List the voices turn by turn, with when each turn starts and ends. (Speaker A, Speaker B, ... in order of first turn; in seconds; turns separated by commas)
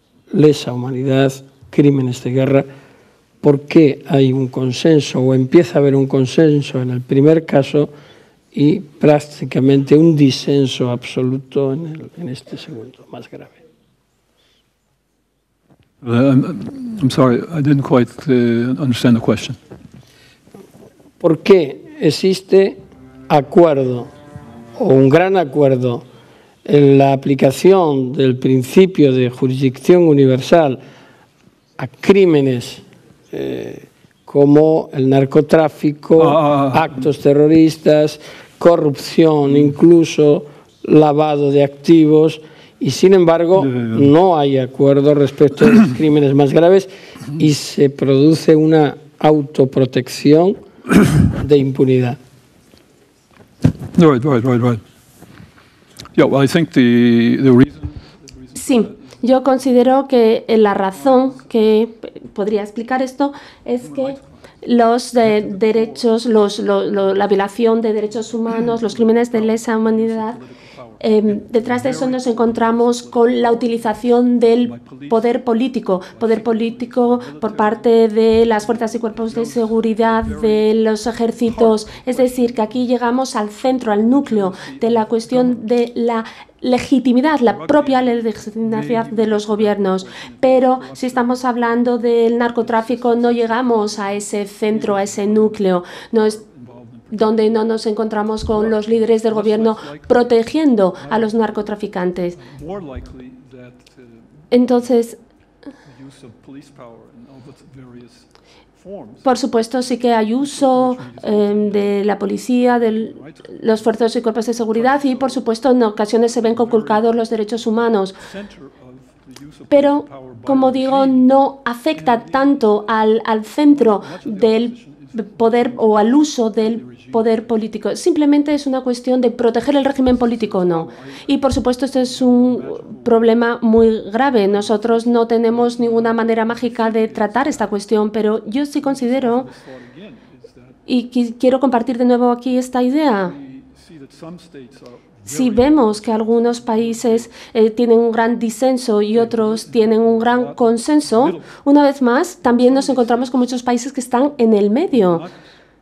Speaker A: 0.3-2.7, Speaker A: 3.4-7.9, Speaker A: 8.5-13.6, Speaker B: 16.0-19.6, Speaker A: 21.2-24.1, Speaker A: 24.8-26.0, Speaker A: 26.6-30.8, Speaker A: 31.8-50.6, Speaker B: 36.2-37.0, Speaker A: 51.1-52.2, Speaker B: 53.8-54.8, Speaker B: 56.1-59.8, Speaker C: 58.5-70.4, Speaker B: 60.9-61.5, Speaker B: 63.8-64.5, Speaker B: 65.2-66.1, Speaker B: 68.1-75.3, Speaker C: 71.0-96.4, Speaker B: 76.1-77.9, Speaker B: 78.5-80.7, Speaker B: 81.4-82.9, Speaker B: 84.0-85.6, Speaker B: 87.5-91.9, Speaker B: 92.6-97.7, Speaker C: 97.1-102.4, Speaker B: 98.5-100.4, Speaker B: 101.0-101.7, Speaker B: 102.3-104.9, Speaker C: 104.5-105.2, Speaker B: 105.8-109.3, Speaker C: 109.2-118.2, Speaker B: 110.4-112.0, Speaker B: 112.7-114.0, Speaker B: 114.6-115.5, Speaker B: 116.4-121.3, Speaker C: 119.7-139.5, Speaker B: 121.9-122.8, Speaker B: 123.7-127.5, Speaker B: 129.7-133.4, Speaker B: 134.2-137.8, Speaker B: 138.8-140.8, Speaker C: 140.9-143.3, Speaker B: 143.2-147.3, Speaker C: 145.2-155.2, Speaker B: 149.1-151.6, Speaker B: 152.4-153.3, Speaker B: 154.9-155.4